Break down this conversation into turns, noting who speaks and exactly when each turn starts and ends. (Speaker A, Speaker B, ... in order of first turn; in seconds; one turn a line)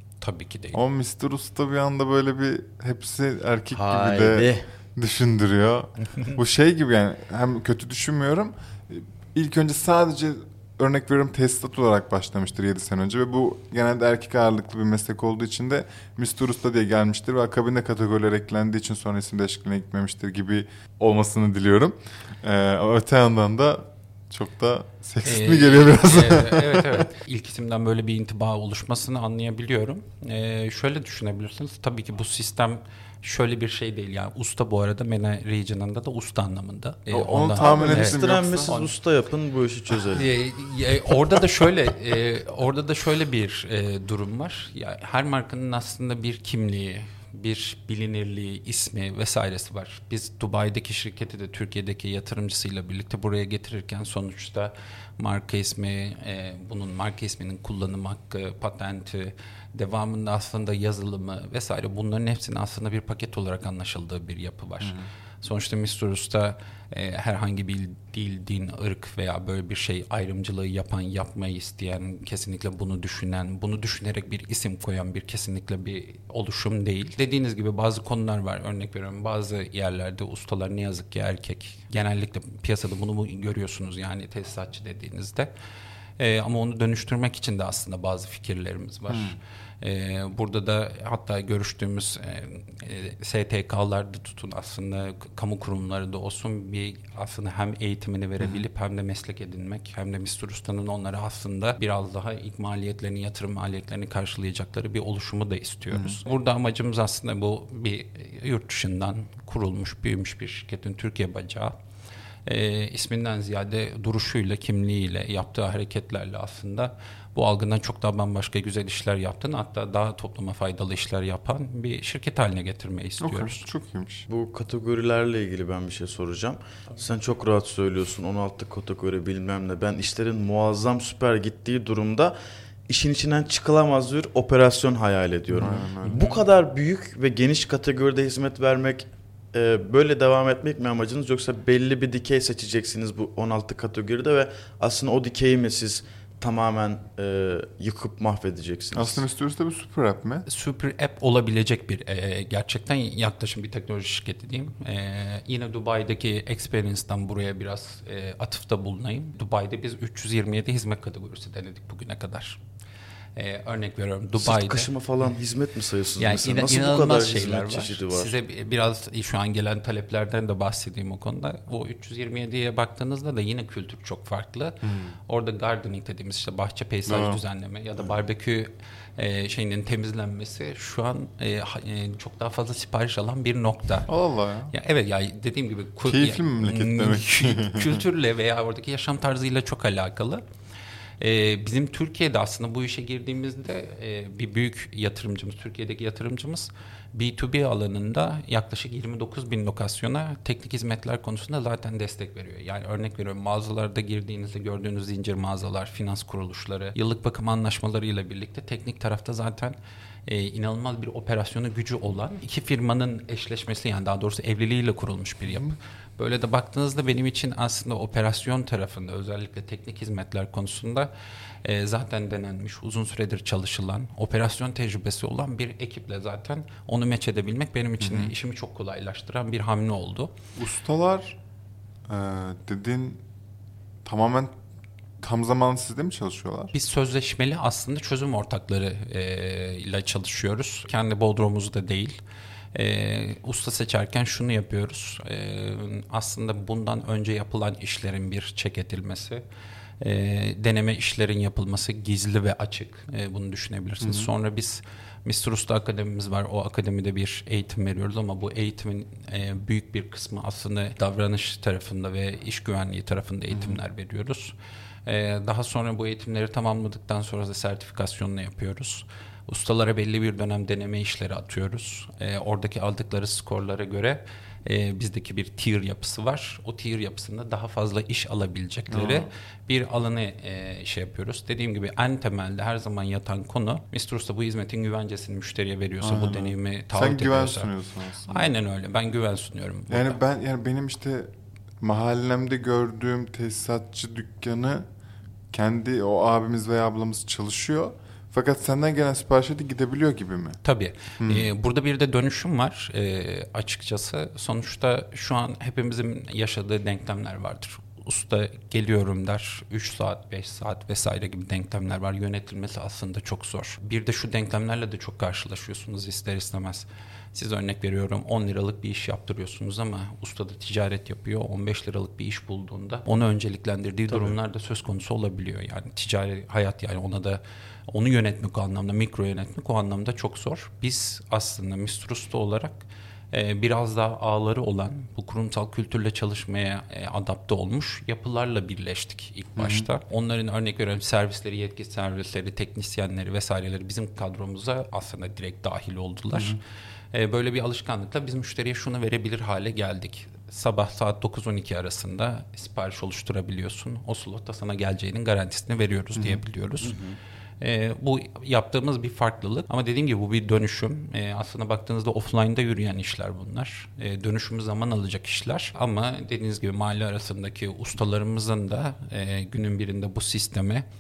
Speaker A: 0.2-0.8
Speaker B: 0.7-27.0
Speaker C: 3.7-4.7
Speaker A: 25.2-38.9
Speaker B: 37.1-38.7
Speaker C: 37.6-40.3
Speaker A: 40.1-85.5
Speaker A: 86.2-111.7
Speaker B: 89.1-89.4
Speaker B: 105.9-106.2
Speaker A: 112.5-123.7
Speaker B: 123.2-124.3
Speaker C: 124.3-132.3
Speaker C: 132.9-149.3
Speaker B: 135.5-136.3
Speaker A: 136.0-136.4
Speaker B: 148.9-150.4
Speaker A: 150.5-162.6
Speaker A: 163.4-164.9
Speaker C: 164.4-168.3
Speaker A: 166.2-184.1
Speaker B: 174.8-175.2
Speaker B: 177.1-177.4
Speaker B: 184.1-184.7
Speaker A: 184.7-190.4
Speaker B: 186.1-188.0
Speaker A: 191.2-221.1
Speaker A: 221.6-230.3
Speaker B: 228.0-228.3
Speaker B: 230.6-231.4
Speaker B: 232.1-233.2
Speaker B: 234.0-234.6
Speaker B: 235.2-236.7
Speaker A: 236.7-242.2
Speaker A: 242.7-249.4
Speaker A: 250.0-264.6
Speaker B: 254.0-254.3
Speaker B: 263.5-263.8
Speaker A: 265.1-287.7
Speaker B: 278.9-279.3
Speaker B: 286.0-288.5
Speaker A: 288.3-290.2
Speaker B: 289.9-294.9
Speaker B: 295.5-300.6
Speaker A: 300.6-346.6
Speaker B: 301.2-301.5
Speaker C: 324.1-324.4
Speaker B: 339.6-339.9
Speaker B: 346.3-346.6
Speaker A: 347.1-357.0
Speaker C: 356.8-357.2
Speaker A: 357.6-370.9